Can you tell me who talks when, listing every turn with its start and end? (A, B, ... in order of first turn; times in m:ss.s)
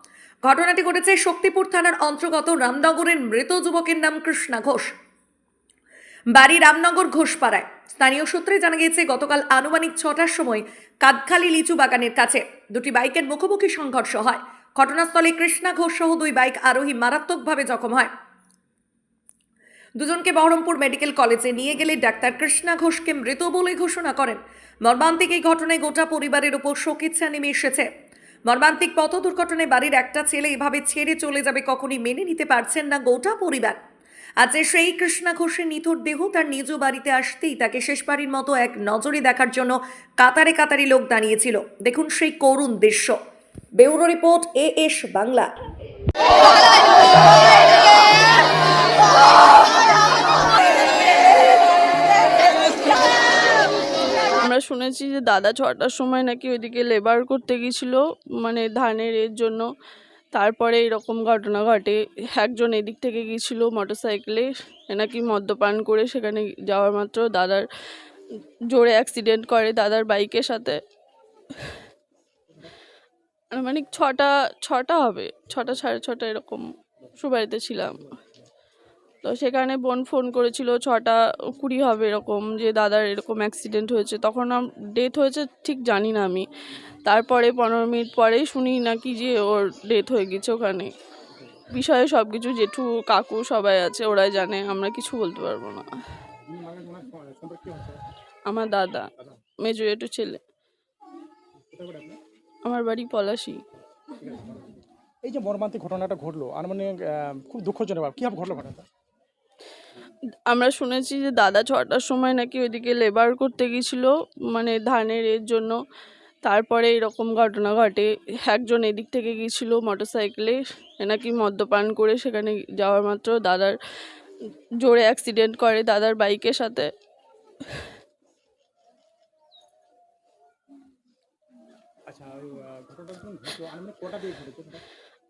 0:00.4-0:04.9 A
0:06.3-0:18.1 A
0:20.0-0:27.9 A
0:28.5-0:33.8 A
0:34.4-0:43.2 A
0:43.8-0:45.5 A
0:54.4-0:59.6 B
1:00.3-1:07.6 B
1:08.7-1:10.8 B
1:13.5-1:16.6 B
1:17.2-1:18.0 B
1:17.8-1:18.5 C
1:19.2-1:26.4 B
1:27.0-1:30.9 B
1:31.3-1:31.6 C
1:31.7-1:35.9 B
1:36.4-1:38.0 C
1:38.5-1:39.1 B
1:39.6-1:40.4 B
1:41.7-1:42.2 C
1:42.6-1:43.6 B
1:44.1-1:48.8 C
1:50.5-1:55.8 B
1:56.4-2:03.8 B
2:04.8-2:06.9 B
2:12.1-2:14.8 C